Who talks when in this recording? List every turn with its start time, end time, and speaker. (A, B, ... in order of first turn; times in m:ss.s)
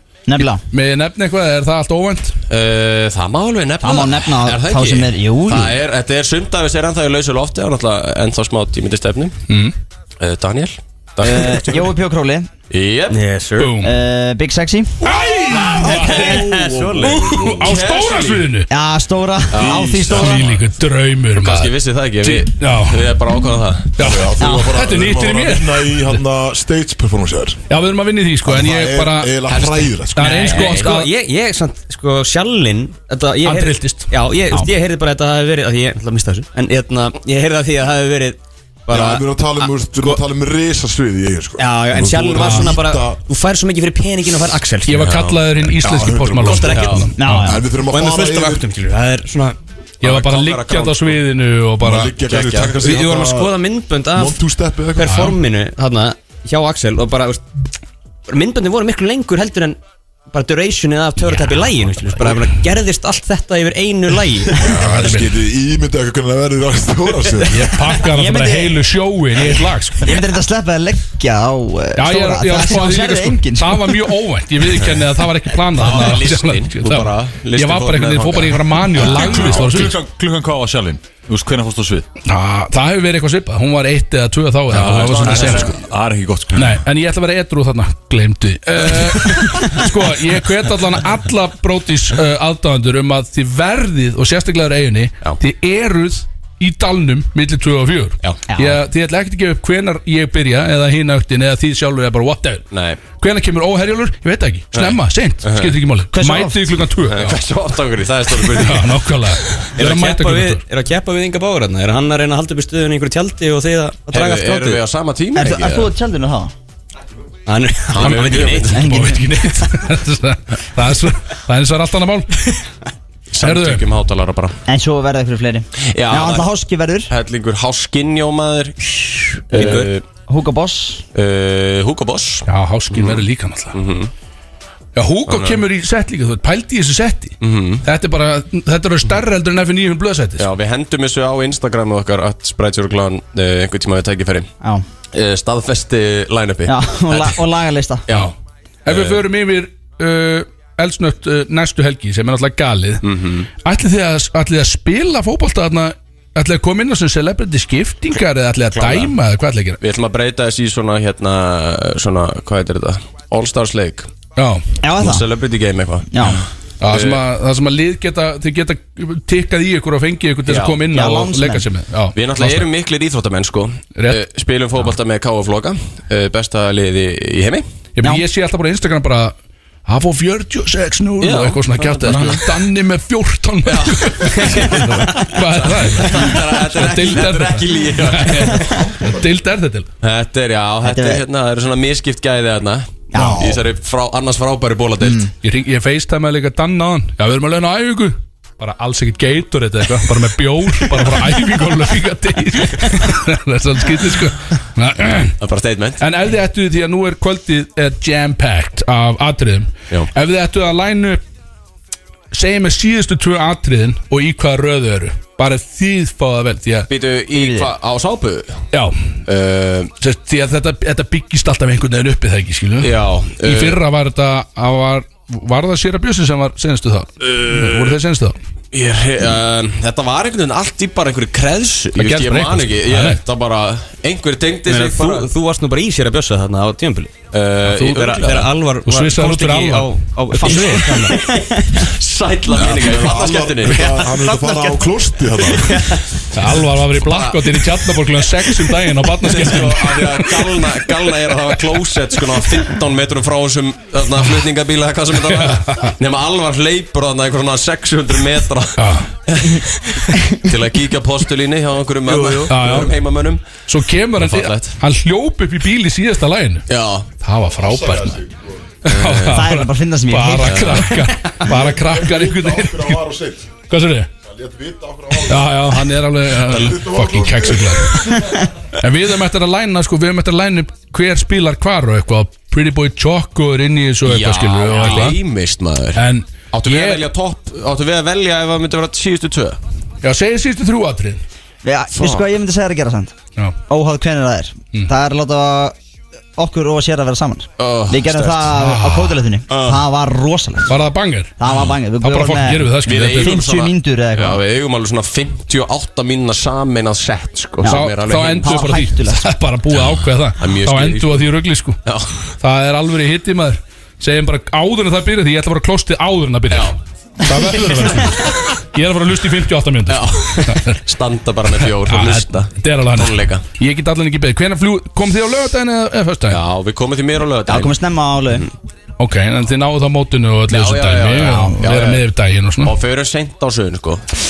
0:00.3-0:00.6 A
0:00.4-0:02.4 B
0:02.5-0:09.3 C
0:03.8-0:05.7 A
0:09.5-0:09.7 B
0:10.2-0:11.9 C
0:11.2-0:12.5 A
0:12.7-0:13.2 C
0:13.1-0:13.7 D
0:13.6-0:13.9 B
0:13.8-0:15.1 A
0:15.0-0:18.7 B
0:15.8-0:17.8 E
0:15.8-0:17.0 D
0:16.7-0:18.4 C
0:18.7-0:20.4 A
0:19.5-0:20.4 C
0:19.7-0:20.1 E
0:20.0-0:23.1 B
0:21.4-0:23.9 C
0:24.0-0:26.2 B
0:24.0-0:27.6 E
0:24.4-0:24.7 A
0:27.7-0:31.1 B
0:28.4-0:30.6 E
0:29.5-0:29.8 C
0:30.2-0:40.2 D
0:33.4-0:34.7 B
0:38.9-0:43.2 E
0:41.6-0:45.1 D
0:42.4-0:42.7 B
0:44.8-0:47.6 B
0:45.0-0:45.4 C
0:45.8-0:48.6 E
0:46.0-0:47.0 D
0:46.7-0:47.1 C
0:47.2-0:47.7 A
0:47.8-0:49.6 D
0:50.0-0:51.2 C
0:50.0-0:52.2 B
0:51.8-0:53.6 E
0:52.2-0:52.8 C
0:52.6-0:54.4 D
0:54.1-0:55.3 E
0:55.0-0:57.4 D
0:55.0-0:55.4 B
0:58.3-0:59.8 D
1:00.3-1:04.7 D
1:04.6-1:07.8 E
1:04.6-1:05.4 B
1:07.5-1:10.2 B
1:08.1-1:08.8 A
1:10.0-1:14.0 A
1:12.0-1:20.0 B
1:15.7-1:19.8 C
1:19.2-1:22.0 F
1:22.2-1:25.8 B
1:24.7-1:26.8 F
1:24.8-1:25.8 C
1:26.5-1:47.4 B
1:38.5-1:38.8 A
1:42.7-1:43.0 C
1:44.7-1:45.8 C
1:46.1-1:46.7 A
1:47.0-1:49.6 C
1:48.5-1:50.6 B
1:49.8-1:54.8 D
1:54.1-1:55.9 C
1:55.4-1:56.5 A
1:57.5-1:58.8 D
1:57.9-1:58.8 C
1:58.0-2:02.4 B
1:58.8-1:59.3 A
2:03.3-2:04.6 C
2:03.4-2:03.9 B
2:04.7-2:07.1 A
2:05.8-2:06.5 C
2:07.1-2:10.0 C
2:09.5-2:09.9 D
2:10.3-2:11.0 A
2:11.1-2:14.1 C
2:12.4-2:13.8 B
2:14.9-2:20.5 B
2:15.3-2:15.6 C
2:17.4-2:17.8 C
2:20.4-2:24.5 C
2:25.1-2:27.4 C
2:26.7-2:28.0 A
2:28.1-2:28.3 C
2:28.8-2:33.0 B
2:28.9-2:29.2 C
2:33.0-2:33.5 C
2:33.6-2:39.8 B
2:38.7-2:39.1 C
2:39.8-2:44.1 C
2:44.4-2:44.6 B
2:44.8-2:45.3 A
2:45.0-2:47.2 C
2:46.1-2:46.4 A
2:46.8-2:52.7 B
2:50.4-2:50.8 C
2:50.9-2:51.6 A
2:52.1-2:57.6 C
2:53.9-2:54.2 B
2:58.0-2:59.3 B
2:59.8-3:09.9 B
3:01.2-3:02.5 C
3:03.6-3:08.8 C
3:10.0-3:15.3 C
3:10.8-3:11.2 A
3:13.1-3:13.6 A
3:13.1-3:13.4 B
3:15.0-3:15.3 A
3:15.4-3:25.4 B
3:25.4-3:26.0 C
3:26.0-3:31.2 B
3:32.3-3:36.9 B
3:36.9-3:38.6 C
3:37.4-3:37.7 A
3:38.7-3:39.0 B
3:39.2-3:39.9 C
3:40.0-3:48.4 B
3:42.8-3:43.8 C
3:47.3-3:47.9 C
3:48.7-3:55.3 C
3:52.0-3:53.2 B
3:54.6-3:57.1 D
3:57.3-3:58.5 C
3:57.6-3:58.2 B
3:57.8-4:01.3 D
3:58.8-4:00.9 B
4:00.7-4:03.9 C
4:02.5-4:05.9 E
4:03.6-4:06.0 D
4:06.3-4:10.8 B
4:06.9-4:07.8 C
4:09.2-4:23.4 C
4:15.1-4:16.0 B
4:18.8-4:19.1 B
4:22.4-4:23.0 B
4:23.6-4:26.7 B
4:24.2-4:24.8 C
4:26.7-4:27.1 C
4:27.2-4:28.2 B
4:27.5-4:28.6 E
4:28.8-4:29.4 C
4:28.8-4:33.0 B
4:29.3-4:30.8 A
4:30.4-4:31.0 C
4:31.5-4:33.5 E
4:33.7-4:34.1 B
4:34.2-4:35.8 E
4:35.3-4:38.2 B
4:36.4-4:38.3 E
4:38.8-4:45.2 B
4:44.0-4:49.6 C
4:45.9-4:47.1 B
4:50.0-4:51.2 B
4:51.6-4:53.1 A
4:51.9-4:52.2 C
4:53.7-4:55.7 A
4:56.4-5:00.8 A
4:57.6-4:58.5 C
4:58.5-4:59.2 B
4:59.5-4:59.8 C
5:00.7-5:01.4 B
5:01.4-5:02.7 A
5:01.5-5:01.7 C
5:02.0-5:03.5 B
5:02.8-5:08.8 C
5:03.3-5:04.4 A
5:07.6-5:11.8 B
5:08.4-5:09.3 A
5:09.7-5:12.2 C
5:12.4-5:20.8 B
5:16.5-5:16.8 C
5:19.9-5:23.4 C
5:21.6-5:26.4 B
5:26.3-5:27.7 C
5:27.5-5:28.4 A
5:29.0-5:32.7 B
5:30.5-5:32.0 C
5:31.3-5:31.5 A
5:32.6-5:34.0 C